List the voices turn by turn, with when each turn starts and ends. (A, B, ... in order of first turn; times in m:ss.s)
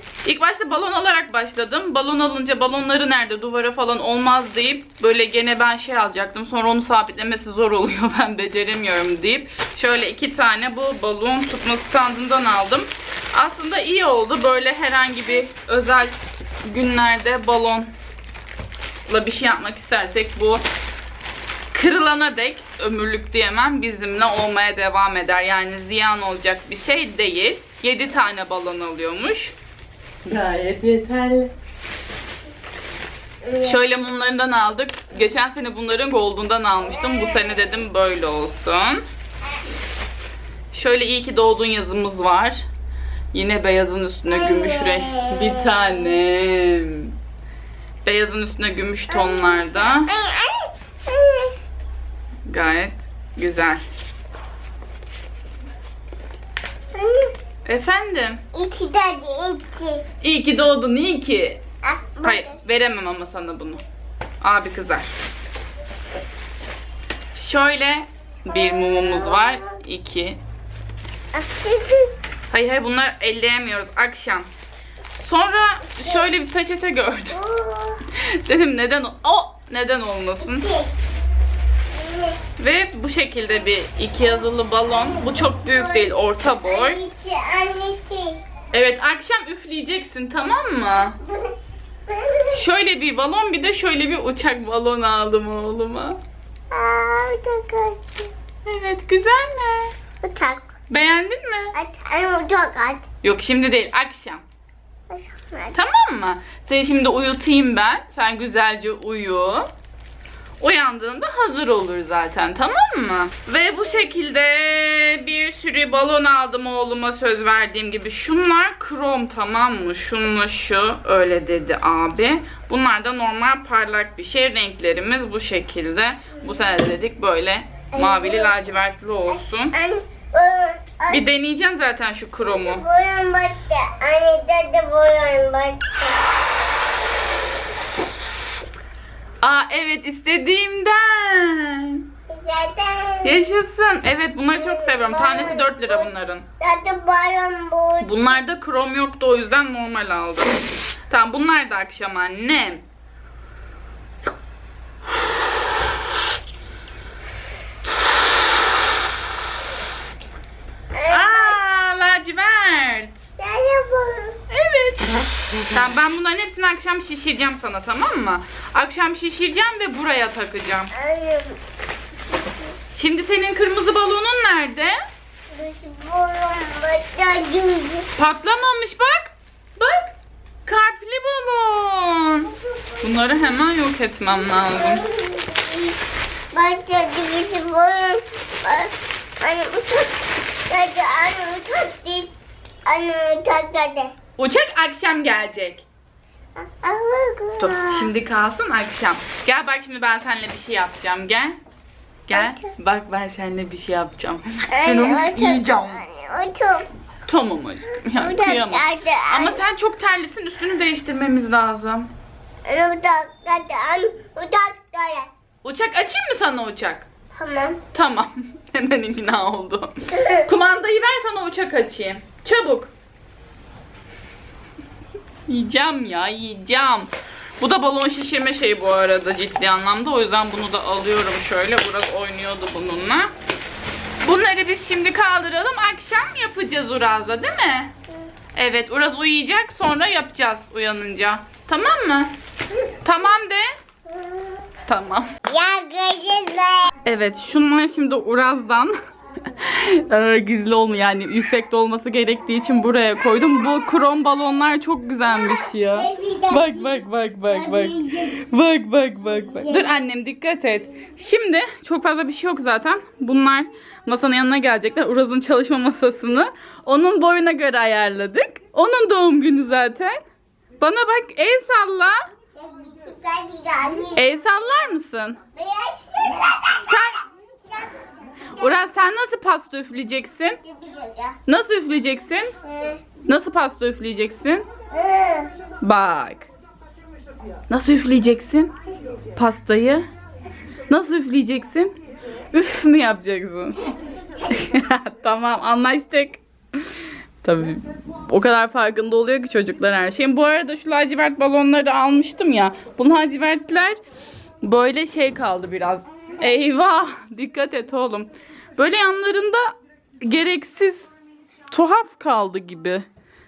0:00.2-0:17.9 A
0:19.1-0:20.6 A
0:21.7-0:29.5 A
0:30.2-0:31.5 A
0:33.4-0:33.8 B
0:33.6-0:39.0 A
0:40.7-0:42.6 A
0:43.3-0:47.1 A
0:44.3-0:45.9 B
0:48.0-0:50.1 A
0:49.1-0:51.5 B
0:52.5-0:53.8 A
0:56.9-0:57.3 B
0:57.6-0:58.4 A
0:58.5-1:00.0 B
1:00.2-1:01.6 A
1:01.8-1:02.5 B
1:02.2-1:03.8 A
1:04.4-1:05.1 A
1:07.3-1:10.4 A
1:08.5-1:09.6 B
1:11.3-1:12.1 B
1:12.5-1:14.5 A
1:15.2-1:17.4 A
1:17.3-1:18.0 B
1:18.4-1:20.6 A
1:20.4-1:20.9 B
1:21.9-1:22.4 B
1:22.6-1:27.0 A
1:24.9-1:28.4 B
1:28.7-1:31.2 A
1:31.2-1:31.5 B
1:32.1-1:32.6 B
1:32.5-1:36.2 A
1:36.7-1:38.3 B
1:38.6-1:39.9 A
1:40.2-1:40.6 B
1:40.9-1:41.7 A
1:41.8-1:43.0 B
1:43.2-1:44.4 A
1:45.1-1:45.8 B
1:45.7-1:49.7 A
1:50.6-2:09.7 A
2:07.9-2:08.5 B
2:09.3-2:11.2 B
2:11.1-2:12.8 A
2:12.4-2:16.2 B
2:19.4-2:22.0 A
2:22.3-2:23.5 B
2:23.2-2:26.4 A
2:24.5-2:28.4 B
2:28.0-2:32.8 A
2:40.9-2:41.6 B
2:41.1-2:43.2 A
2:43.4-2:44.4 B
2:44.5-2:45.1 A
2:45.7-2:50.9 A
2:50.9-2:51.6 B
2:52.9-2:54.9 A
2:55.5-2:58.1 B
2:58.2-3:00.1 A
3:00.6-3:02.5 A
3:03.0-3:05.0 A
3:04.5-3:06.0 B
3:06.5-3:10.2 B
3:10.7-3:12.3 B
3:12.9-3:14.1 B
3:14.4-3:15.8 A
3:16.6-3:18.1 B
3:17.6-3:21.6 A
3:22.3-3:26.0 A
3:22.3-3:22.7 B
3:24.7-3:26.8 B
3:27.3-3:32.1 A
3:28.2-3:29.6 B
3:32.6-3:35.3 B
3:35.6-3:37.1 A
3:37.4-3:37.8 B
3:37.9-3:39.9 A
3:40.1-3:40.4 B
3:40.4-3:42.9 A
3:45.5-3:53.3 A
3:54.2-3:57.9 A
3:58.5-4:02.4 A
4:03.0-4:03.7 A
4:04.1-4:04.6 B
4:04.9-4:05.3 A
4:05.5-4:06.9 B
4:07.0-4:08.9 A
4:09.6-4:30.2 A
4:15.4-4:18.4 B
4:19.4-4:19.9 B
4:30.8-4:32.2 A
4:32.5-4:34.4 B
4:34.2-4:35.4 A
4:35.5-4:36.8 B
4:36.8-4:37.2 A
4:38.6-4:40.6 A
4:40.6-4:41.4 B
4:41.4-4:42.5 A
4:42.6-4:43.0 B
4:43.2-4:44.6 A
4:44.9-4:45.5 B
4:45.8-4:46.5 A
4:47.7-4:48.7 A
4:49.4-4:50.0 A
4:50.9-4:51.9 A
4:52.5-4:53.8 A
4:54.5-4:56.8 A
4:57.4-5:04.0 A
5:04.6-5:11.1 A
5:11.7-5:13.0 A